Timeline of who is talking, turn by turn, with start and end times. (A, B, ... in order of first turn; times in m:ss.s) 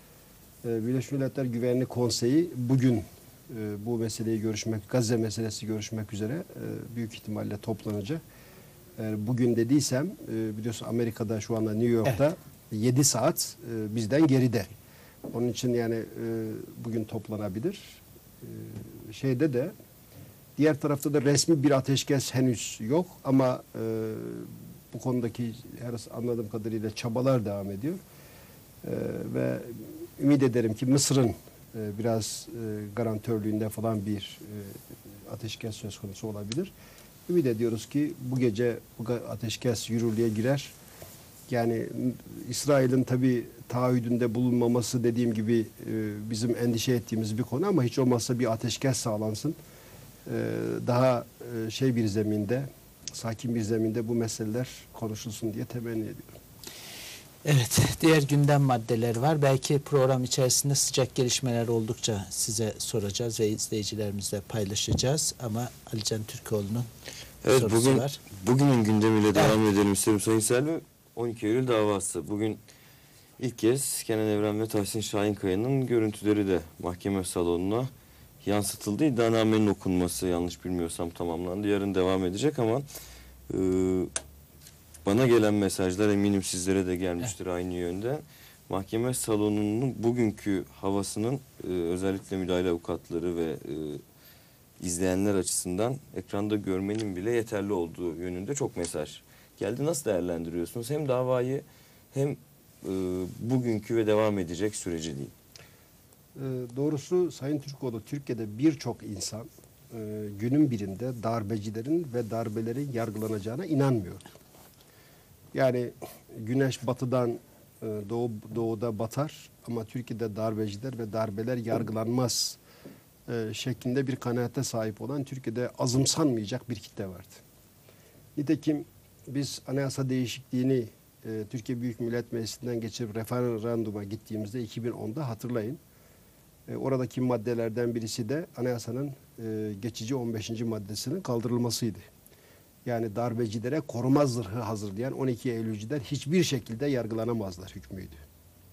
0:00.6-0:08.2 A
0:09.0-0:14.7 A
0:15.3-0:19.7 A
0:20.6-0:28.0 A
0:28.8-0:36.7 A
0:37.3-0:40.8 A
0:41.5-0:49.6 A
0:50.2-0:56.3 A
0:57.4-1:06.9 B
1:07.4-1:12.6 C
1:07.5-1:08.2 B
1:13.4-1:17.9 C
1:18.4-1:22.8 C
1:23.5-1:24.1 C
1:25.0-1:34.0 C
1:34.8-1:45.3 C
1:46.3-1:54.3 A
1:55.5-2:02.6 A
2:03.3-2:07.4 A
2:08.3-2:15.8 A
2:16.7-2:22.1 A
2:22.8-2:28.2 A